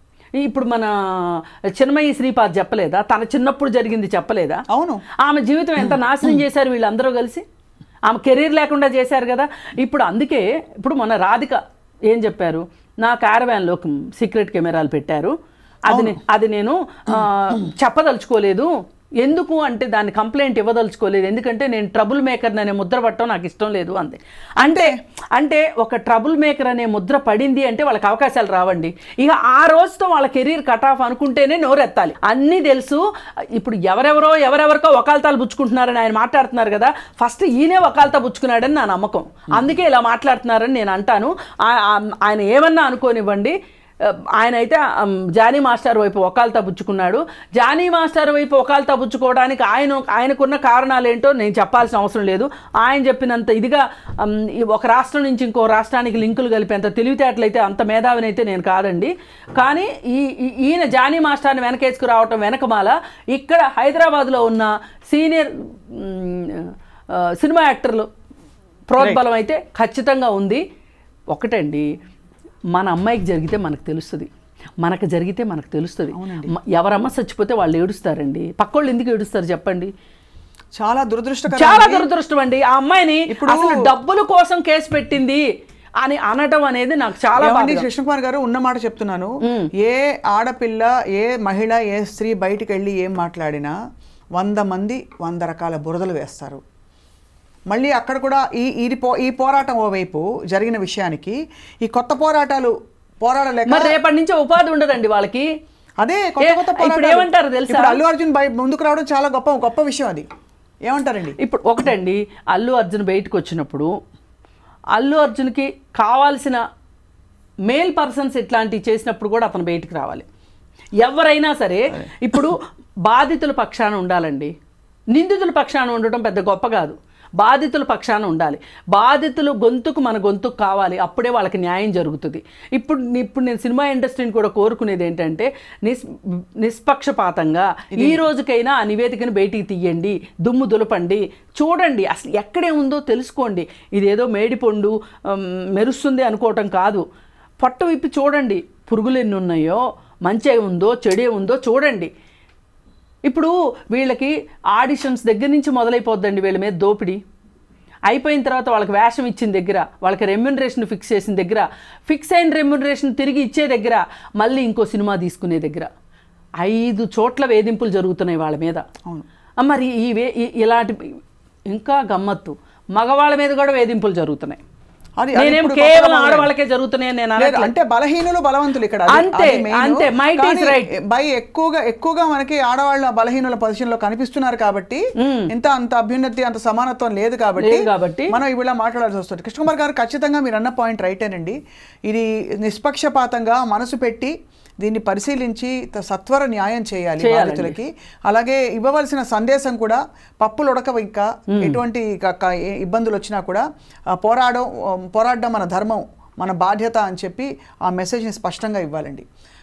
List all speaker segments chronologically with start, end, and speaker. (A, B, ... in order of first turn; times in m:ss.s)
0:00.4-0:04.6 A
0:04.7-0:05.0 B
0:05.2-0:07.4 A
0:08.1-0:15.3 A
0:15.9-0:33.0 A
0:15.9-0:16.2 B
0:24.6-0:24.9 B
0:33.5-1:08.1 A
1:08.9-1:10.6 A
1:09.0-1:09.2 B
1:11.3-1:11.9 A
1:12.7-1:14.3 A
1:14.8-1:19.9 A
1:16.1-1:16.5 B
1:20.8-1:22.1 B
1:21.5-1:25.4 A
1:23.3-1:23.8 B
1:26.0-1:27.9 A
1:27.4-1:33.8 B
1:29.4-1:29.7 A
1:34.4-1:36.6 B
1:37.7-1:43.9 B
1:43.7-1:45.5 A
1:46.0-1:50.3 B
1:46.4-1:48.0 A
1:50.9-1:51.4 B
1:51.4-1:53.9 A
1:55.0-1:56.6 A
1:57.7-2:00.3 A
2:01.0-2:04.5 A
2:05.1-2:16.1 A
2:16.6-2:27.0 A
2:18.0-2:18.2 B
2:27.6-2:32.1 A
2:33.3-2:37.2 A
2:38.1-2:45.9 A
2:46.6-2:48.8 A
2:49.6-2:51.2 A
2:51.7-2:54.6 A
2:55.2-2:56.5 B
2:55.4-2:57.7 A
2:57.4-3:11.6 B
2:59.1-3:00.9 A
3:05.2-3:05.5 A
3:07.6-3:08.4 A
3:12.1-3:29.3 B
3:17.2-3:17.8 A
3:21.5-3:21.8 A